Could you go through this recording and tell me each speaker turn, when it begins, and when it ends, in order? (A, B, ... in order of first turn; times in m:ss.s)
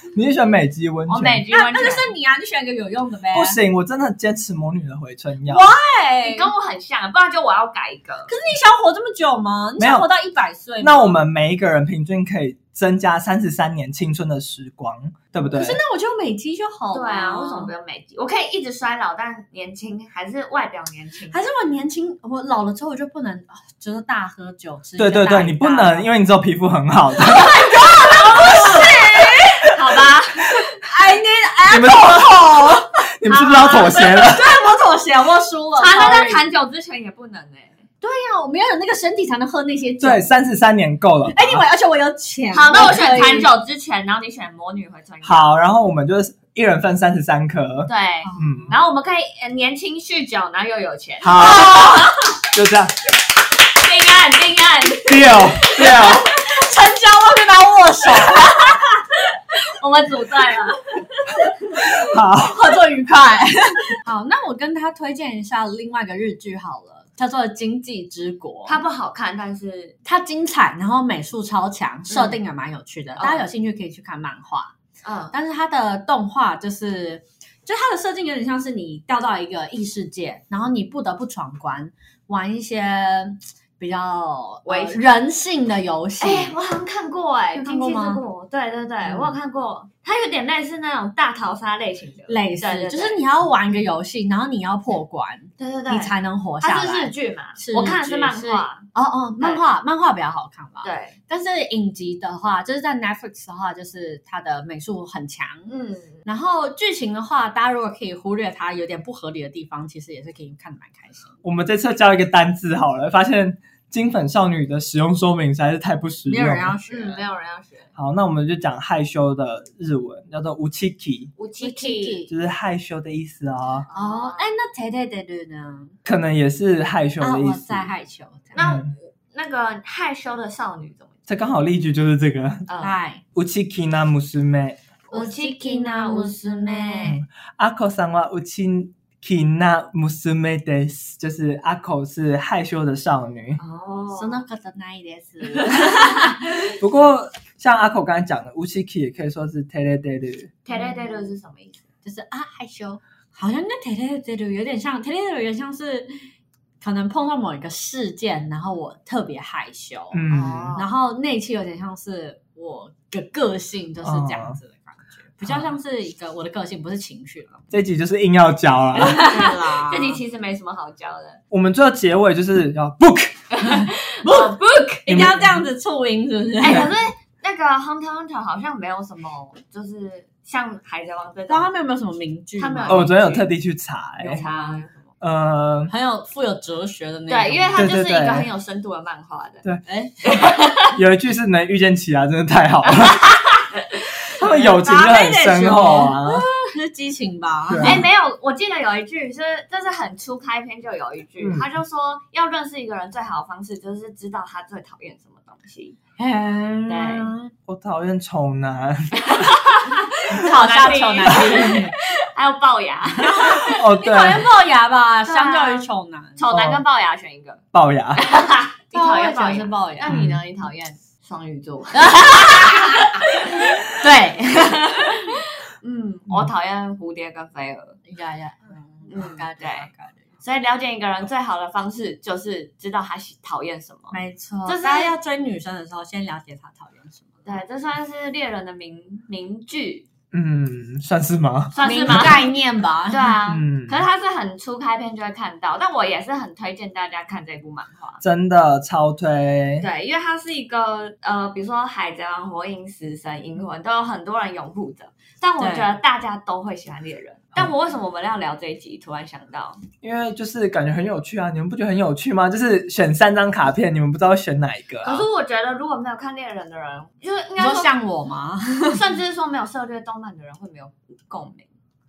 0:00.1-0:01.4 A
0:01.1-0:02.1 B
0:01.5-0:03.6 C
0:03.3-0:05.7 A
0:05.5-0:06.5 C
0:06.2-0:08.3 B
0:08.3-0:11.2 C
0:09.8-0:10.1 A
0:10.8-0:15.8 A
0:15.5-0:17.7 C
0:16.9-0:21.4 B
0:21.3-0:26.1 C
0:25.0-0:27.7 A
0:27.3-0:29.7 C
0:27.5-0:29.0 B
0:28.3-0:28.9 A
0:29.7-0:30.6 B
0:30.8-0:32.9 C
0:31.7-0:34.5 A
0:33.2-0:34.3 B
0:34.0-0:36.4 C
0:35.8-0:37.8 B
0:38.0-0:40.2 C
0:40.0-0:41.6 A
0:41.3-0:43.5 C
0:42.5-0:45.5 B
0:45.2-0:48.8 A
0:47.9-0:52.4 B
0:48.2-0:48.7 C
0:51.2-0:52.9 A
0:53.8-0:56.2 B
0:55.1-0:56.3 A
0:55.8-0:58.8 C
0:58.2-0:58.9 B
0:59.5-1:01.8 B
1:01.8-1:02.6 A
1:02.4-1:08.8 C
1:08.7-1:10.0 B
1:10.0-1:14.7 C
1:12.1-1:12.4 B
1:13.2-1:13.5 B
1:15.0-1:15.4 B
1:15.3-1:26.6 C
1:24.6-1:25.0 B
1:26.2-1:33.2 B
1:27.6-1:28.2 C
1:32.3-1:45.7 C
1:35.6-1:38.9 B
1:40.8-1:41.2 B
1:45.7-1:46.2 B
1:46.2-1:51.3 C
1:51.4-1:56.8 A
1:56.3-1:57.2 C
1:56.9-1:57.9 B
1:58.0-2:01.3 A
2:01.4-2:02.3 B
2:01.6-2:02.3 C
2:02.3-2:03.9 A
2:03.9-2:04.5 B
2:03.9-2:06.0 C
2:06.0-2:07.9 A
2:07.2-2:08.6 C
2:08.5-2:11.1 B
2:08.6-2:08.9 A
2:11.3-2:12.7 A
2:12.7-2:13.0 B
2:12.8-2:13.2 C
2:13.4-2:14.8 A
2:15.1-2:17.2 B
2:15.1-2:17.2 C
2:17.0-2:23.6 A
2:23.6-2:24.4 B
2:24.1-2:26.7 C
2:25.5-2:26.3 B
2:26.8-2:30.6 A
2:30.7-2:31.8 B
2:30.7-2:31.3 C
2:32.0-2:36.2 C
2:36.8-2:47.6 C
2:40.1-2:40.7 A
2:40.3-2:40.9 B
2:44.0-2:44.6 A
2:45.4-2:45.7 A
2:47.7-2:49.2 A
2:49.0-2:51.4 B
2:49.0-2:50.2 C
2:51.5-2:53.4 A
2:53.5-2:55.1 B
2:54.2-2:56.9 C
2:55.1-2:55.7 A
2:56.6-3:01.7 B
3:01.5-3:03.1 C
3:02.6-3:03.5 B
3:02.9-3:04.4 A
3:04.2-3:05.0 B
3:04.3-3:04.8 C
3:05.2-3:05.9 A
3:05.9-3:07.9 C
3:07.3-3:09.6 B
3:07.8-3:08.5 A
3:09.9-3:10.2 C
3:10.2-3:11.0 B
3:10.9-3:13.3 A
3:13.0-3:14.3 B
3:14.4-3:16.4 A
3:14.4-3:18.0 C
3:16.3-3:16.7 B
3:17.7-3:18.0 A
3:17.8-3:26.0 B
3:21.4-3:21.7 A
3:26.2-3:27.5 C
3:26.9-3:27.3 B
3:27.7-3:29.5 A
3:29.2-3:33.8 B
3:30.3-3:32.0 C
3:33.2-3:36.4 C
3:33.5-3:34.5 A
3:35.3-3:37.6 B
3:36.5-3:36.8 A
3:37.7-3:38.2 A
3:38.2-3:43.9 B
3:38.9-3:40.2 C
3:40.1-3:40.4 A
3:41.9-3:45.2 C
3:44.5-3:48.0 B
3:48.1-3:50.3 C
3:49.1-3:49.9 B
3:50.4-3:55.1 B
3:54.1-3:57.5 C
3:57.4-4:00.1 B
4:00.3-4:02.4 A
4:01.7-4:02.5 B
4:01.8-4:03.4 C
4:03.1-4:08.2 B
4:03.5-4:04.0 A
4:08.2-4:09.9 A
4:09.8-4:19.8 B
4:15.6-4:15.9 C
4:20.0-4:25.2 A
4:25.0-4:27.9 B
4:27.6-4:29.0 C
4:28.9-4:31.7 B